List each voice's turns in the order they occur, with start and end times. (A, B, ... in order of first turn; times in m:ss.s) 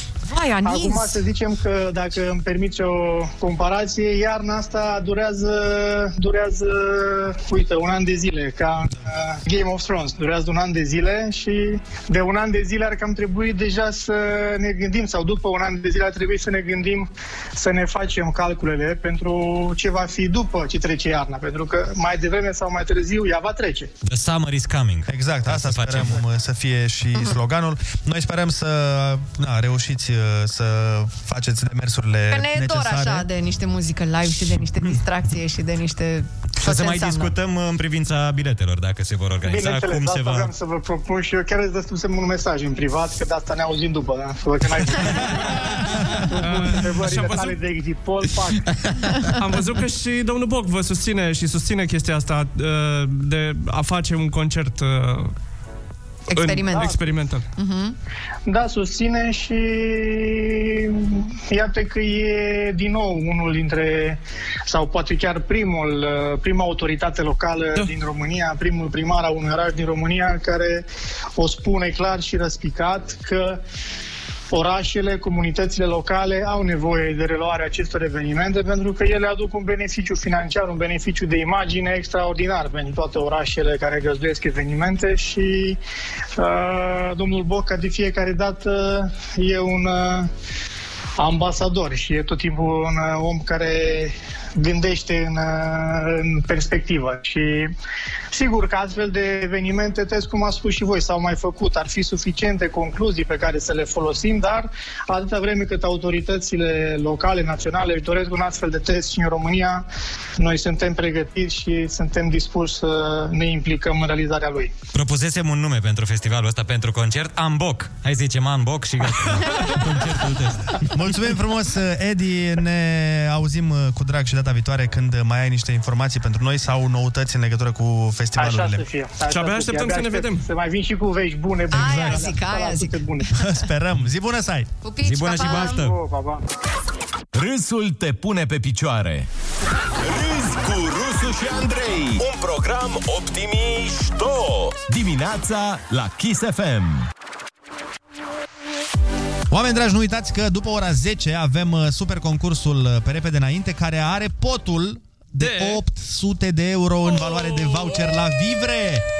0:00.3-0:01.2 A
0:00.6-0:23.9 B
0:24.0-0:26.2 C
0:25.1-0:33.3 D
0:32.3-0:37.3 A
0:36.6-0:40.5 C
0:39.4-0:48.7 B
0:46.4-0:47.6 E
0:49.4-0:55.3 E
0:56.3-0:57.0 A
0:56.3-0:57.4 E
0:57.5-0:57.9 A
0:58.5-1:10.8 B
1:11.4-1:13.6 B
1:14.5-1:25.8 B
1:26.4-1:30.3 B
1:31.2-1:37.7 B
1:38.3-1:49.9 B
1:50.4-1:54.7 B
1:54.9-2:00.8 C
2:00.9-2:08.8 D
2:08.4-2:13.3 B
2:09.3-2:10.4 E
2:11.7-2:13.6 A
2:13.3-2:14.7 D
2:14.8-2:15.8 A
2:15.0-2:16.0 C
2:15.7-2:16.4 B
2:17.3-2:19.3 F
2:20.0-2:27.1 F
2:29.5-2:39.0 D
2:35.4-2:35.8 E
2:37.2-2:37.8 E